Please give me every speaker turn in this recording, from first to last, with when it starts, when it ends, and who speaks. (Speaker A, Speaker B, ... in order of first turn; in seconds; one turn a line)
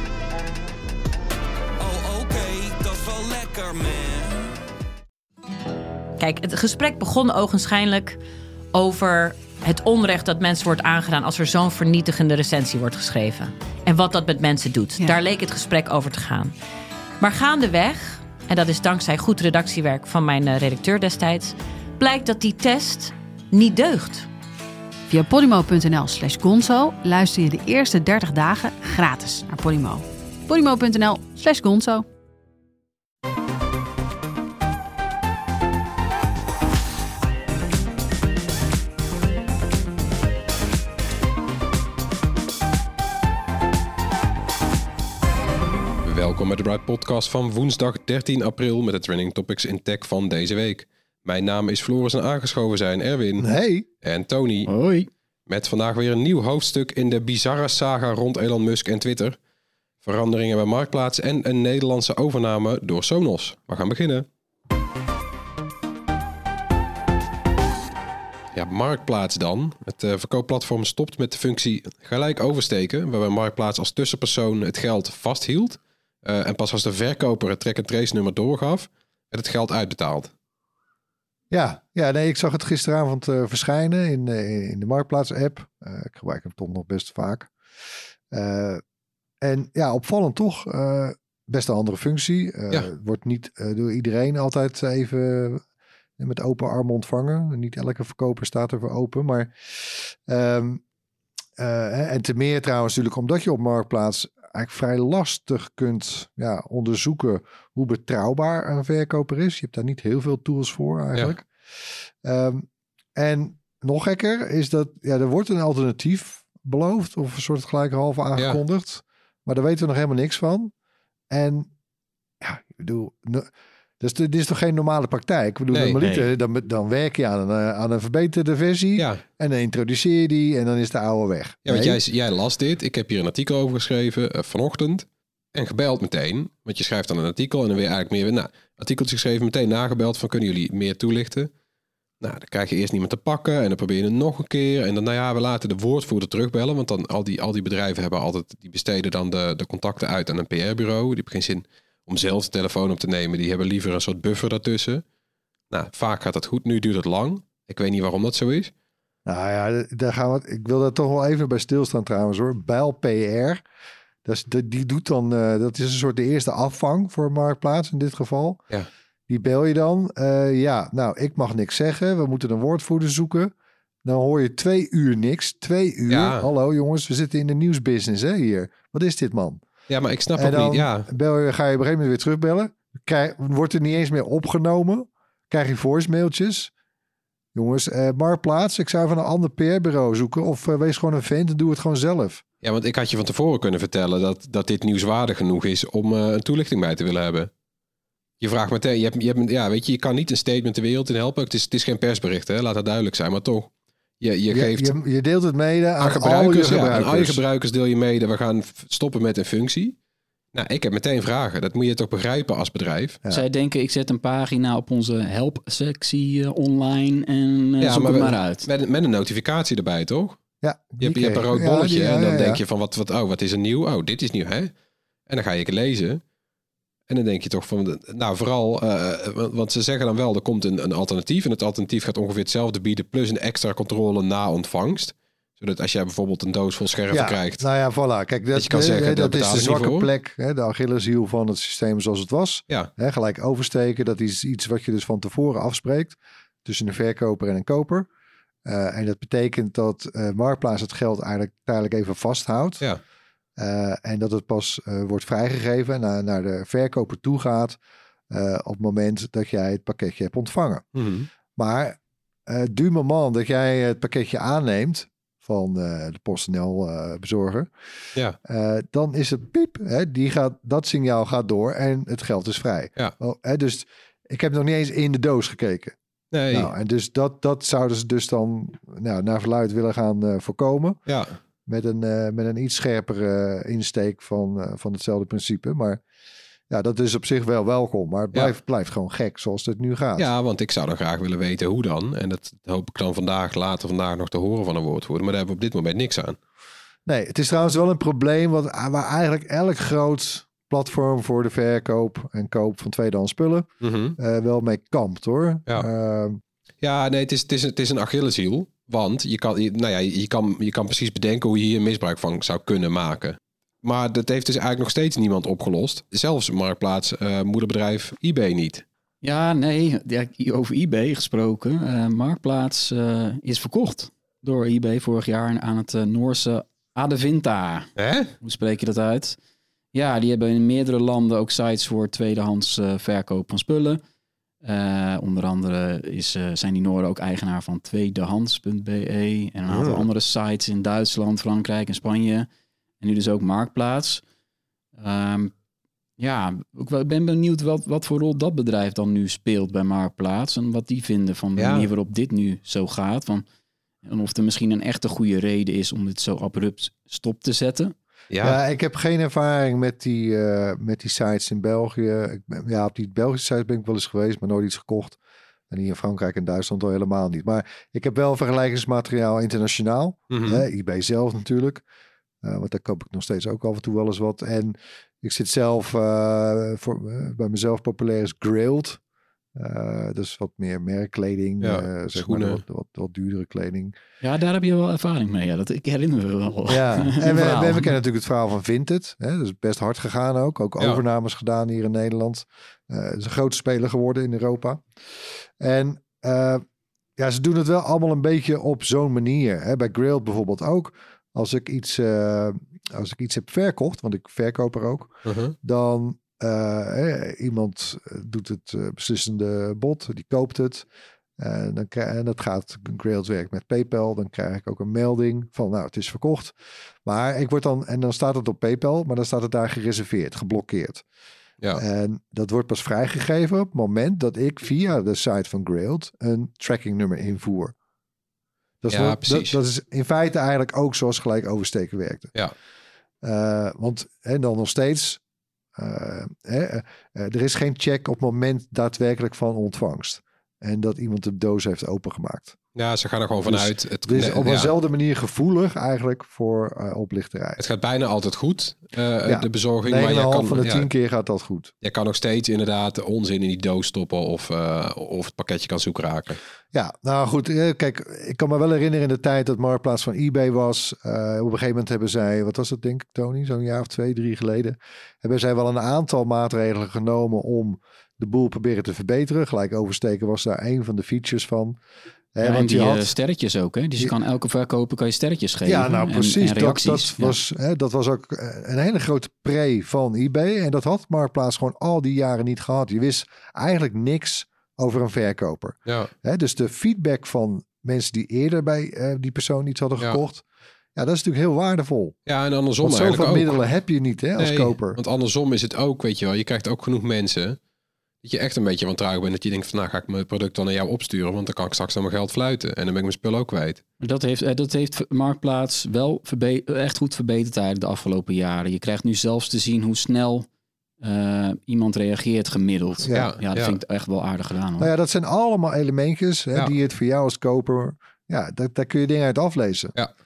Speaker A: 1.8-4.5
Speaker B: 6.2-8.2
Speaker B: 8.7-16.5
Speaker B: 17.2-24.3
Speaker C: 25.1-32.0
Speaker D: 46.0-54.7
Speaker E: 53.4-53.9
Speaker F: 54.7-55.1
Speaker D: 55.5-59.4
Speaker D: 60.0-64.2
Speaker D: 68.5-80.3
Speaker E: 81.5-87.5
Speaker E: 88.3-88.8
Speaker E: 89.4-95.6
Speaker E: 96.2-100.8
Speaker E: 101.6-120.7
Speaker E: 121.3-121.7
Speaker E: 122.4-123.5
Speaker E: 124.0-132.0
Speaker D: 125.7-126.0
Speaker F: 126.0-126.2
Speaker D: 129.0-129.2
Speaker D: 131.7-141.5
Speaker D: 142.2-155.0
Speaker D: 155.7-158.7
Speaker E: 159.2-163.6
Speaker E: 164.2-168.6
Speaker E: 169.3-173.5
Speaker E: 174.0-179.6
Speaker D: 176.1-176.5
Speaker D: 179.9-181.1
Speaker E: 180.3-186.7
Speaker E: 187.5-192.4
Speaker D: 192.6-197.5
Speaker D: 198.4-204.9
Speaker E: 204.5-207.4
Speaker D: 206.0-209.9
Speaker D: 210.5-213.2
Speaker F: 213.3-218.7
Speaker D: 217.8-220.4
Speaker E: 220.6-222.6
Speaker D: 221.0-224.7
Speaker D: 225.3-226.2
Speaker D: 227.1-237.6
Speaker E: 237.1-248.1
Speaker D: 238.5-240.1
Speaker E: 248.7-252.8
Speaker E: 253.6-257.8
Speaker E: 258.3-260.8
Speaker D: 260.9-261.3
Speaker E: 261.6-267.7
Speaker E: 268.4-275.9
Speaker D: 276.3-276.7
Speaker E: 276.5-281.0
Speaker D: 281.1-281.3
Speaker E: 281.6-286.0
Speaker E: 286.7-290.3
Speaker D: 290.2-296.4
Speaker E: 297.1-306.4
Speaker D: 303.8-304.2
Speaker D: 306.8-318.8
Speaker F: 319.2-327.9
Speaker D: 327.9-328.3
Speaker F: 328.4-329.4
Speaker F: 329.9-334.0
Speaker F: 334.6-342.5
Speaker F: 343.0-344.2
Speaker F: 345.0-345.5
Speaker F: 346.2-353.4
Speaker D: 351.6-351.9
Speaker F: 354.0-357.9
Speaker D: 358.3-358.6
Speaker E: 358.4-365.2
Speaker E: 365.7-371.8
Speaker D: 370.3-370.6
Speaker E: 372.4-379.0
Speaker E: 379.5-383.9
Speaker D: 381.6-382.6
Speaker F: 384.2-387.9
Speaker E: 386.7-394.9
Speaker E: 395.6-396.6
Speaker E: 397.2-405.1
Speaker D: 405.2-405.5
Speaker E: 405.6-410.8
Speaker E: 411.4-421.0
Speaker E: 421.7-427.7
Speaker E: 428.8-432.3
Speaker D: 428.9-429.6
Speaker E: 433.2-435.2
Speaker E: 435.7-442.6
Speaker D: 442.8-444.7
Speaker E: 443.4-447.6
Speaker D: 447.6-450.9
Speaker E: 449.2-451.7
Speaker D: 451.8-456.4
Speaker E: 456.7-471.8
Speaker E: 472.3-473.1
Speaker F: 472.4-477.4
Speaker E: 475.6-490.4
Speaker E: 490.9-492.1
Speaker D: 492.3-493.6
Speaker E: 492.8-495.0
Speaker D: 494.4-497.6
Speaker D: 498.2-503.8
Speaker F: 504.0-510.5
Speaker F: 511.0-514.9
Speaker E: 513.0-513.3
Speaker D: 513.1-513.8
Speaker E: 514.8-519.9